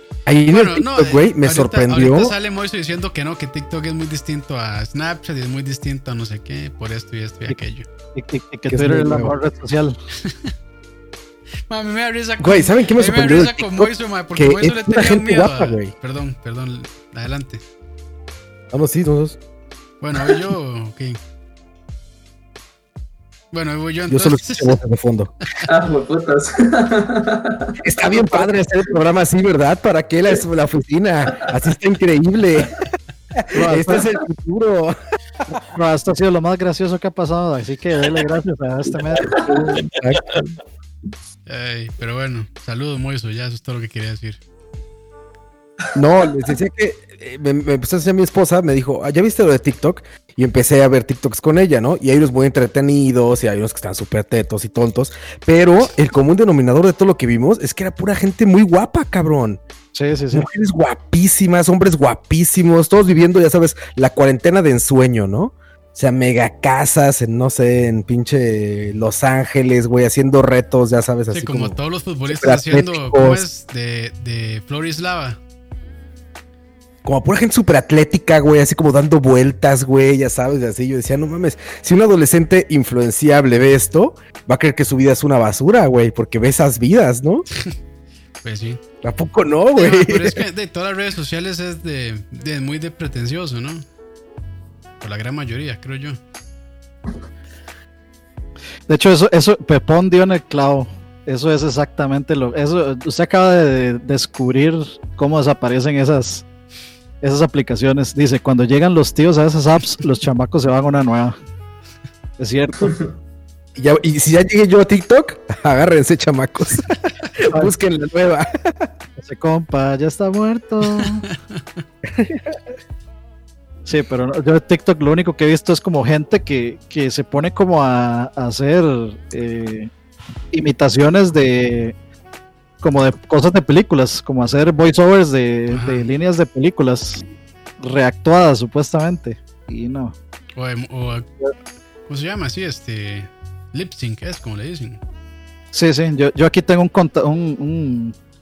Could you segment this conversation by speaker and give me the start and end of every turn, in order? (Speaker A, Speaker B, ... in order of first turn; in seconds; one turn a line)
Speaker A: 0.3-2.3
Speaker B: 0.5-7.9
Speaker C: 8.2-10.0
Speaker A: 8.7-9.3
Speaker B: 10.2-10.5
Speaker B: 11.7-17.6
Speaker A: 12.4-15.9
Speaker A: 18.7-19.4
Speaker B: 20.0-21.2
Speaker B: 23.5-24.8
Speaker A: 24.1-25.3
Speaker D: 25.6-27.8
Speaker A: 27.8-35.0
Speaker C: 33.5-34.1
Speaker C: 35.6-39.4
Speaker A: 39.3-40.5
Speaker B: 41.5-44.4
Speaker A: 45.9-59.6
Speaker C: 59.9-60.5
Speaker A: 60.3-73.5
Speaker B: 71.3-75.4
Speaker A: 77.0-87.5
Speaker B: 88.4-88.8
Speaker A: 89.0-90.4
Speaker B: 89.8-93.8
Speaker B: 95.0-96.2
Speaker C: 98.9-106.5
Speaker C: 107.2-111.4
Speaker C: 112.4-113.0
Speaker A: 113.8-118.9
Speaker C: 119.2-121.3
Speaker B: 121.0-121.4
Speaker A: 122.1-122.4
Speaker C: 123.9-129.9
Speaker C: 130.5-131.9
Speaker C: 132.8-137.2
Speaker B: 135.7-136.1
Speaker C: 137.8-140.2
Speaker B: 140.6-141.3
Speaker B: 142.1-145.0
Speaker C: 145.7-148.2